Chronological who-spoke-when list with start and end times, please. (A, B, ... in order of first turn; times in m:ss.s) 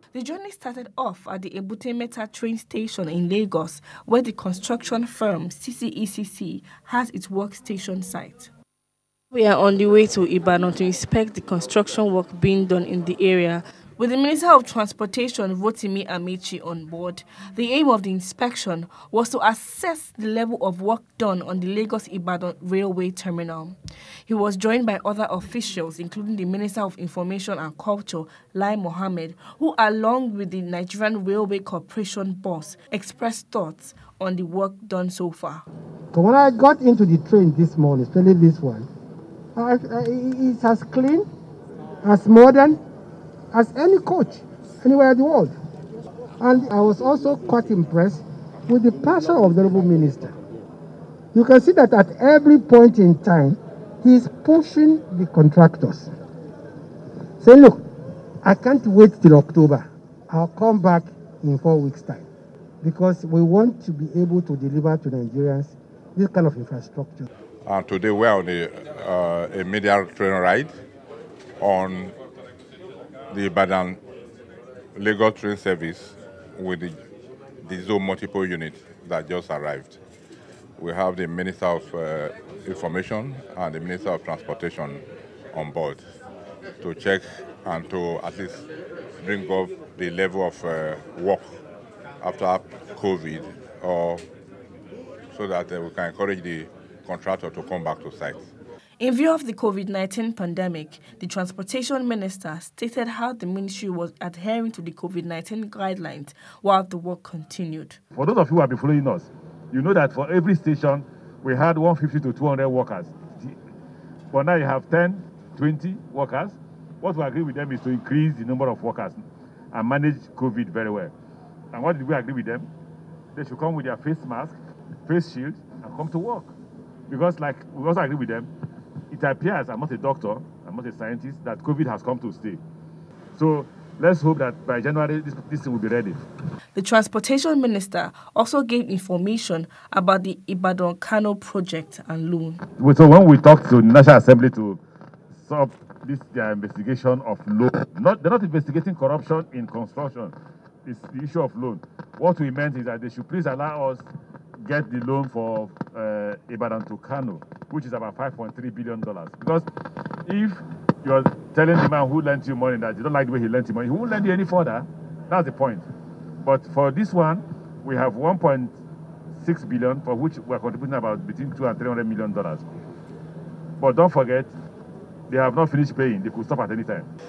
0:00.1-0:08.5 A
0:09.3-0:35.6 A
0:36.1-0:38.9 B
0:39.5-0:41.3 B
0:42.0-0:42.8 B
0:43.5-0:45.5 B
0:46.4-0:50.4 B
0:51.3-0:56.1 B
0:57.4-0:57.8 B
0:58.4-1:02.2 B
1:02.8-1:07.3 B
1:07.6-1:10.7 C
1:11.6-1:12.2 C
1:13.3-1:14.0 C
1:14.9-1:17.0 C
1:17.6-1:20.0 C
1:20.8-1:26.0 C
1:26.8-1:28.7 C
1:29.2-1:31.6 C
1:32.2-1:34.2 C
1:35.3-1:38.5 C
1:39.0-1:48.0 A
1:48.1-1:53.5 D
1:54.3-1:59.2 D
1:59.7-2:01.1 D
2:01.7-2:02.7 D
2:03.3-2:04.5 D
2:05.1-2:06.5 D
2:07.1-2:08.5 D
2:09.1-2:12.6 D
2:13.4-2:16.2 D
2:16.7-2:22.6 A
2:22.8-2:24.8 D
2:25.4-2:30.3 D
2:30.8-2:34.1 D
2:34.6-2:39.6 D
2:40.2-2:45.8 D
2:46.4-2:48.7 D
2:49.4-2:52.6 D
2:53.8-2:54.5 D
2:55.3-2:57.1 D